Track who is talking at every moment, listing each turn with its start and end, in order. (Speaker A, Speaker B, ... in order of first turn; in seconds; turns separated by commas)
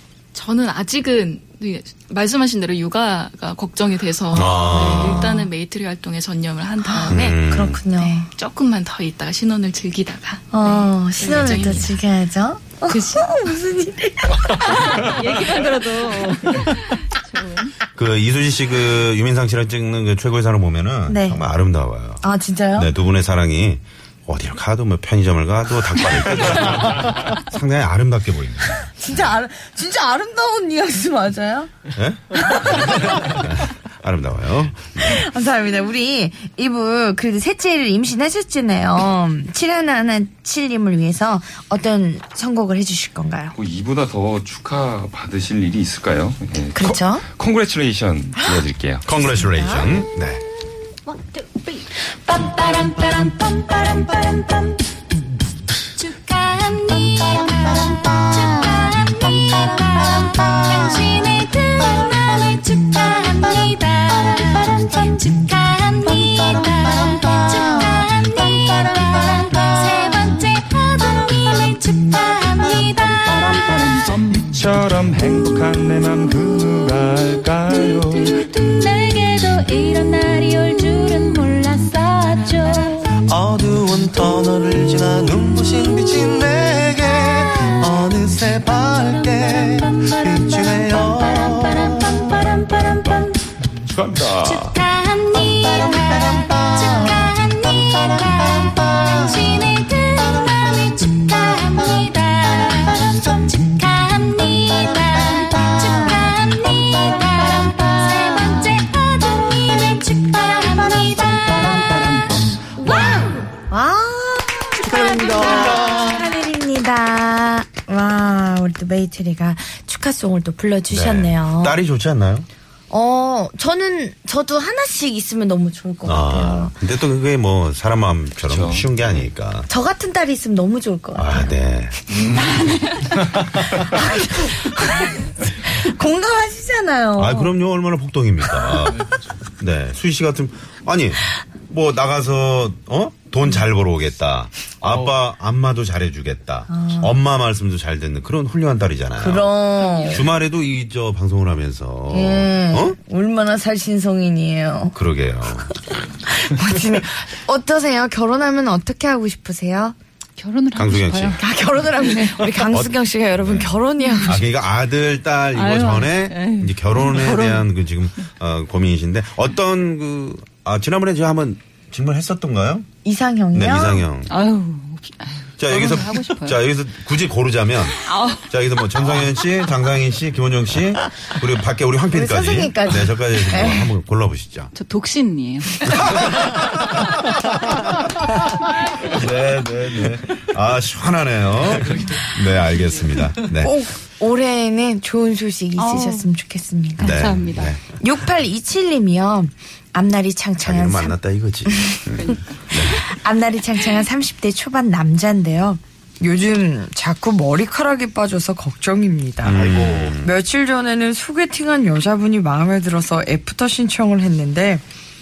Speaker A: 0.3-12.0, Speaker B: 4.3-5.4, Speaker C: 4.9-5.3, Speaker C: 6.8-8.3, Speaker B: 7.1-7.8, Speaker C: 10.5-15.1, Speaker D: 14.9-16.8, Speaker D: 17.3-17.7, Speaker B: 17.9-22.2, Speaker C: 21.1-21.4, Speaker C: 22.2-22.9, Speaker B: 22.7-28.9, Speaker C: 28.9-31.7, Speaker B: 31.9-35.2, Speaker C: 35.0-43.5, Speaker E: 43.5-49.1, Speaker C: 46.7-47.2, Speaker B: 49.0-50.4, Speaker F: 51.1-54.8, Speaker F: 56.0-74.5, Speaker E: 74.3-78.4, Speaker F: 77.7-83.1, Speaker G: 83.2-92.7, Speaker F: 89.9-93.3, Speaker E: 93.8-94.8, Speaker F: 94.3-113.5, Speaker G: 96.6-96.9, Speaker C: 113.7-121.8, Speaker F: 114.8-116.1, Speaker G: 115.2-116.2, Speaker B: 120.9-122.5, Speaker C: 122.9-126.7, Speaker B: 126.0-129.7, Speaker E: 128.4-129.3, Speaker C: 129.7-131.5, Speaker B: 131.2-132.0, Speaker C: 133.8-137.5, Speaker B: 137.2-139.1, Speaker B: 139.6-149.5, Speaker C: 146.7-147.2, Speaker C: 149.2-150.3, Speaker B: 150.1-153.0, Speaker C: 152.1-154.9, Speaker B: 154.9-155.7, Speaker C: 155.7-159.9, Speaker D: 160.4-161.4, Speaker B: 160.7-161.4, Speaker C: 161.4-164.4, Speaker D: 162.0-162.4, Speaker B: 162.6-172.9, Speaker D: 165.5-167.7, Speaker C: 173.0-174.1, Speaker B: 173.5-174.3, Speaker D: 174.3-176.6, Speaker B: 175.6-184.7, Speaker D: 178.0-178.5, Speaker C: 182.1-183.9, Speaker D: 184.7-186.3, Speaker B: 185.9-186.5, Speaker B: 189.0-193.7, Speaker C: 193.5-197.2, Speaker D: 195.8-196.3, Speaker D: 197.0-197.8, Speaker B: 197.0-197.8, Speaker C: 198.0-202.0, Speaker B: 200.6-203.0, Speaker D: 202.2-202.8, Speaker C: 202.7-209.6, Speaker B: 209.4-210.3, Speaker C: 210.2-214.8